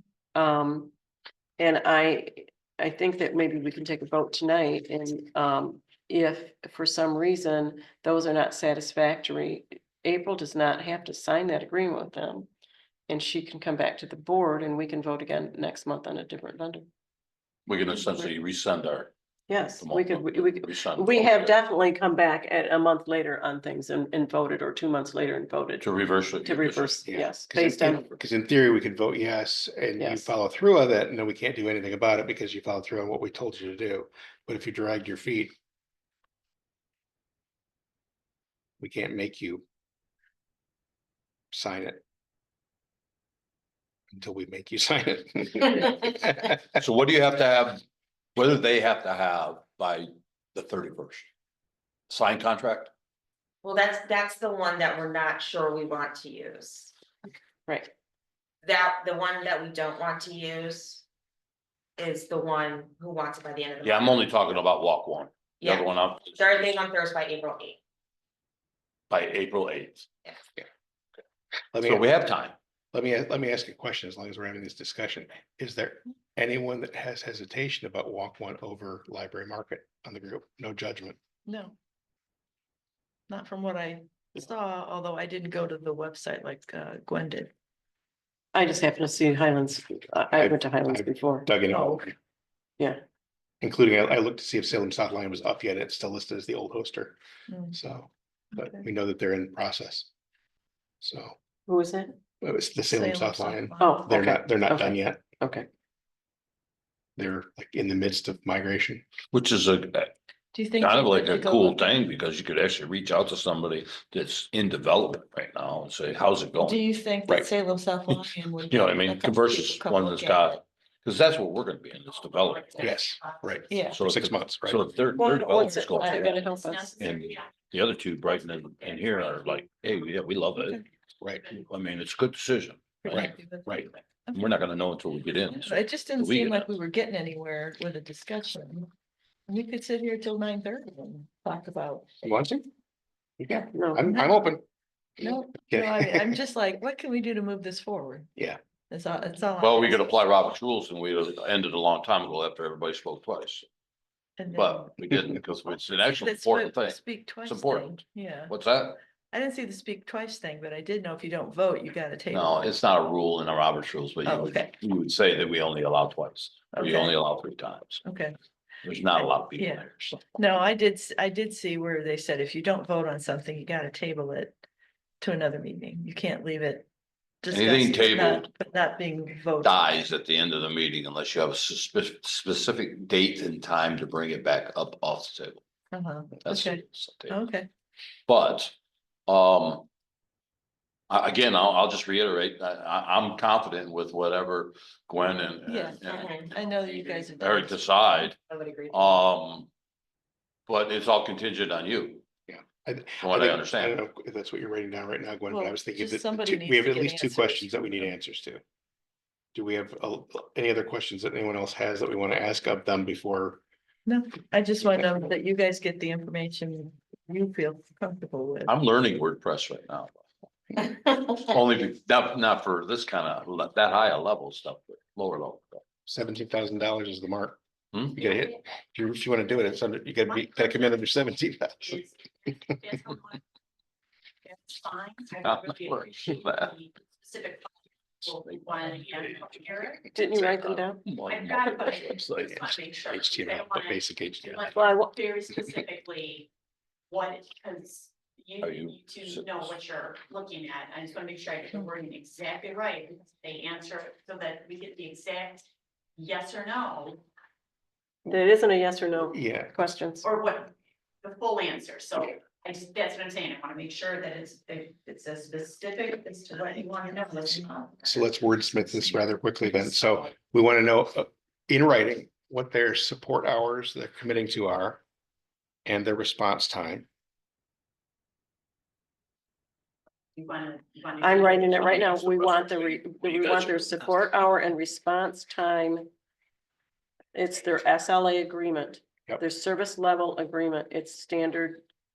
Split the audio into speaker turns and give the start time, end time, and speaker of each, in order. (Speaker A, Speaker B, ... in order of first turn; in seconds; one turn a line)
Speaker A: 0.3-0.9
Speaker A: 1.6-12.5
Speaker A: 13.1-16.9
Speaker B: 17.6-19.1
Speaker A: 19.5-25.9
Speaker B: 19.7-21.5
Speaker B: 25.8-27.1
Speaker A: 26.4-28.0
Speaker C: 27.1-35.5
Speaker B: 27.9-28.2
Speaker A: 30.0-30.3
Speaker C: 38.8-39.6
Speaker C: 41.5-42.0
Speaker C: 44.1-46.6
Speaker B: 46.8-47.8
Speaker B: 48.4-51.3
Speaker B: 52.1-52.9
Speaker D: 53.6-56.9
Speaker D: 58.6-61.0
Speaker D: 62.0-64.3
Speaker B: 63.8-66.8
Speaker D: 65.6-67.8
Speaker B: 69.1-70.1
Speaker C: 71.7-72.1
Speaker B: 71.8-72.5
Speaker C: 72.9-81.2
Speaker E: 81.5-81.8
Speaker E: 83.3-87.5
Speaker A: 88.5-91.5
Speaker C: 90.3-92.1
Speaker E: 91.7-92.0
Speaker C: 93.6-97.2
Speaker E: 97.5-97.8
Speaker C: 97.7-100.1
Speaker E: 98.5-98.8
Speaker C: 101.0-101.3
Speaker A: 101.7-102.2
Speaker C: 102.4-105.2
Speaker E: 102.9-104.1
Speaker A: 103.8-105.7
Speaker C: 107.2-109.0
Speaker B: 109.3-110.1
Speaker E: 110.5-112.0
Speaker B: 110.8-116.8
Speaker E: 116.6-120.5
Speaker B: 118.7-123.0
Speaker F: 122.1-123.8
Speaker C: 122.8-124.8
Speaker E: 123.7-124.0
Speaker B: 123.9-126.4
Speaker A: 125.1-126.9
Speaker E: 125.4-126.3
Speaker F: 126.4-127.7
Speaker B: 127.0-130.8
Speaker F: 128.3-129.4
Speaker E: 130.6-130.8
Speaker C: 131.2-131.5
Speaker B: 131.6-136.7
Speaker E: 133.0-134.4
Speaker C: 133.1-133.8
Speaker E: 135.5-138.9
Speaker E: 139.5-142.1
Speaker C: 142.2-142.7
Speaker C: 143.4-144.6
Speaker A: 143.7-144.1
Speaker E: 144.1-144.4
Speaker E: 145.2-148.3
Speaker C: 145.7-146.3
Speaker E: 148.9-150.1
Speaker B: 149.6-153.7
Speaker E: 154.4-154.9
Speaker B: 154.5-159.0
Speaker E: 156.1-158.5
Speaker E: 159.3-162.7
Speaker B: 162.3-168.0
Speaker E: 164.2-164.7
Speaker E: 166.7-167.1
Speaker E: 168.0-168.4
Speaker B: 168.8-170.2
Speaker E: 169.2-169.8
Speaker E: 170.3-174.6
Speaker E: 175.2-176.9
Speaker E: 177.4-179.8
Speaker B: 177.5-178.5
Speaker B: 179.6-185.6
Speaker E: 185.9-187.7
Speaker B: 186.4-187.4
Speaker B: 188.3-188.7
Speaker B: 189.3-189.9
Speaker B: 191.1-196.4
Speaker E: 195.6-198.3
Speaker D: 196.1-196.5
Speaker B: 197.3-198.4
Speaker D: 198.4-199.2
Speaker B: 198.9-199.7
Speaker B: 200.7-202.2
Speaker C: 202.5-208.6
Speaker B: 203.2-204.0
Speaker E: 205.5-207.7
Speaker C: 209.5-213.6
Speaker E: 214.1-218.7
Speaker B: 218.7-220.2
Speaker B: 220.7-225.8
Speaker C: 226.1-227.6
Speaker B: 227.9-228.3
Speaker C: 228.2-232.0
Speaker F: 230.3-233.4
Speaker F: 234.4-237.7
Speaker B: 235.4-236.8
Speaker F: 238.2-240.1
Speaker B: 238.4-239.4
Speaker A: 240.1-241.0
Speaker B: 240.3-242.8
Speaker F: 241.2-246.5
Speaker C: 243.1-244.7
Speaker A: 244.7-245.1
Speaker F: 247.1-255.6
Speaker B: 248.6-249.8
Speaker F: 256.2-257.2
Speaker A: 258.2-260.2
Speaker C: 259.3-259.7
Speaker F: 260.2-268.3
Speaker C: 268.0-275.0
Speaker C: 275.9-277.1
Speaker F: 280.4-282.5
Speaker A: 281.2-286.1
Speaker B: 282.0-284.1
Speaker A: 287.3-291.8